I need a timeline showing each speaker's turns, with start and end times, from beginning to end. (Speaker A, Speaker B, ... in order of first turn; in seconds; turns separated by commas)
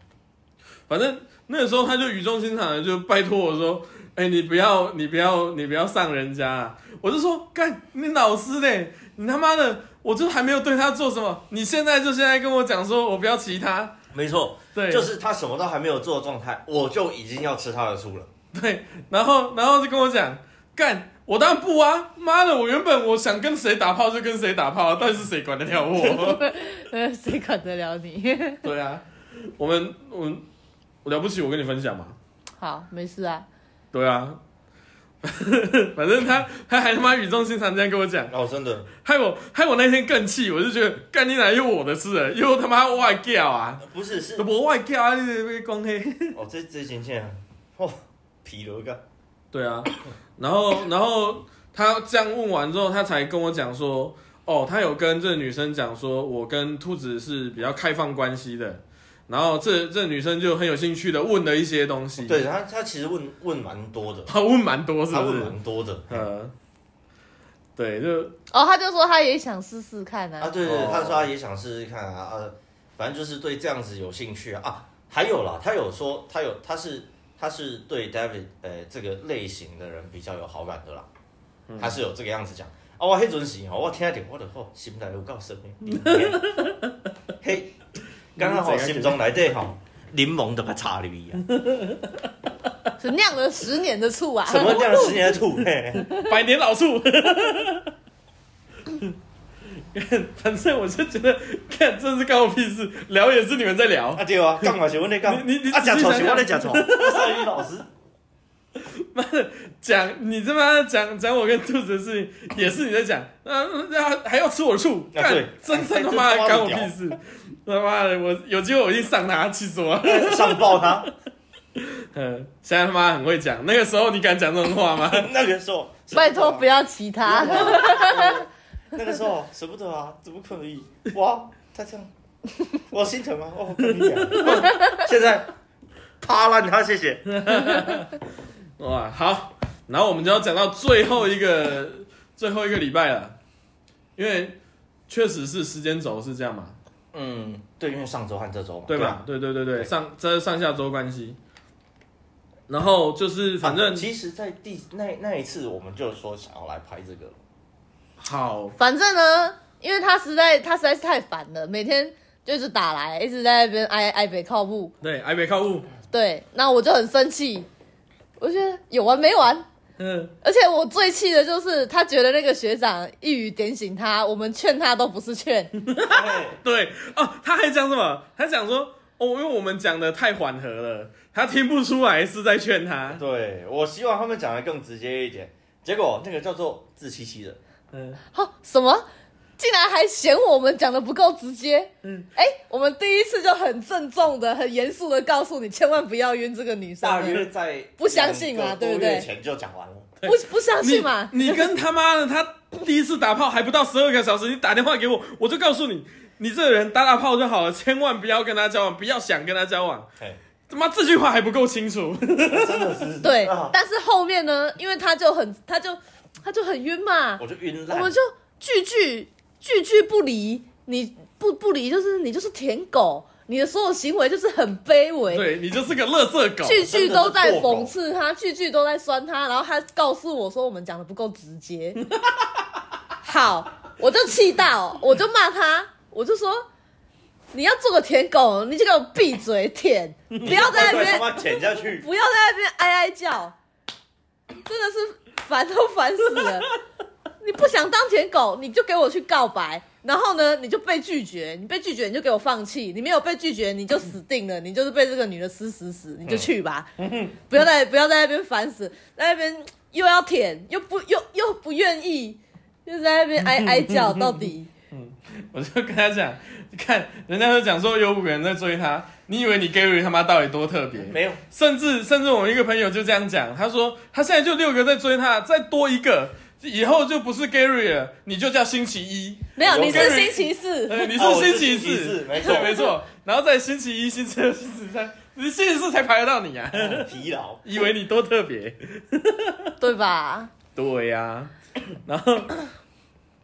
Speaker A: 0.9-14.0, Speaker B: 14.1-18.3, Speaker A: 14.7-15.1, Speaker A: 18.5-26.4, Speaker C: 26.0-28.6, Speaker A: 28.6-29.1, Speaker A: 29.6-30.4, Speaker A: 31.1-32.1, Speaker C: 32.6-33.5, Speaker A: 33.9-34.4, Speaker A: 35.2-38.3, Speaker B: 38.3-38.9, Speaker A: 39.0-43.9, Speaker B: 43.8-44.5, Speaker A: 44.4-46.4, Speaker B: 46.4-49.0, Speaker A: 49.5-62.4, Speaker B: 62.2-64.3, Speaker A: 64.3-65.6, Speaker B: 65.1-66.3, Speaker A: 66.1-66.5, Speaker A: 67.8-68.4, Speaker C: 68.5-70.5, Speaker B: 70.4-81.1, Speaker A: 70.6-71.3, Speaker A: 81.7-82.0, Speaker B: 81.8-86.5, Speaker A: 85.9-87.0, Speaker B: 87.4-87.7, Speaker A: 88.4-89.2, Speaker B: 88.4-91.4, Speaker A: 91.5-92.3, Speaker C: 93.0-95.3, Speaker B: 94.5-96.1, Speaker A: 96.1-97.9, Speaker A: 99.9-104.7, Speaker B: 104.2-107.9, Speaker A: 105.2-107.5, Speaker A: 108.8-121.1, Speaker B: 115.1-117.0, Speaker B: 120.0-121.1, Speaker A: 121.8-125.3, Speaker B: 125.0-126.7, Speaker C: 126.1-128.4, Speaker B: 127.2-132.1, Speaker B: 132.8-135.5, Speaker A: 134.0-134.7, Speaker B: 136.2-137.2, Speaker A: 137.3-138.2, Speaker A: 138.8-143.4, Speaker A: 144.2-146.8, Speaker B: 147.1-149.2, Speaker A: 148.9-151.4, Speaker A: 152.7-154.1, Speaker B: 153.6-157.4, Speaker A: 158.2-158.8, Speaker C: 158.8-164.9, Speaker A: 165.0-165.9, Speaker C: 166.1-167.7, Speaker C: 168.4-169.7, Speaker A: 170.0-170.3, Speaker C: 170.4-175.7, Speaker A: 175.8-183.2, Speaker B: 176.0-176.6, Speaker B: 183.2-187.6, Speaker A: 187.9-188.2, Speaker C: 188.3-189.1, Speaker C: 189.6-197.5, Speaker B: 197.0-200.1, Speaker C: 198.0-199.3, Speaker A: 200.2-210.1, Speaker C: 200.2-201.7, Speaker A: 210.7-213.1, Speaker B: 212.5-213.7, Speaker C: 213.2-225.5, Speaker B: 217.4-218.1, Speaker A: 225.3-226.9, Speaker C: 226.7-232.0, Speaker B: 226.8-227.9, Speaker C: 233.2-236.7, Speaker C: 237.5-243.6, Speaker A: 240.3-241.1, Speaker B: 240.4-242.1, Speaker C: 244.7-246.7, Speaker C: 247.4-256.9, Speaker A: 257.0-257.4, Speaker C: 257.5-264.7, Speaker A: 263.4-287.1, Speaker B: 270.9-271.4, Speaker C: 279.6-281.1, Speaker B: 279.6-280.2, Speaker B: 281.1-282.9, Speaker C: 282.5-282.9, Speaker B: 286.7-287.6, Speaker A: 287.6-289.7, Speaker C: 289.8-290.5, Speaker A: 290.7-291.5, Speaker A: 292.1-292.6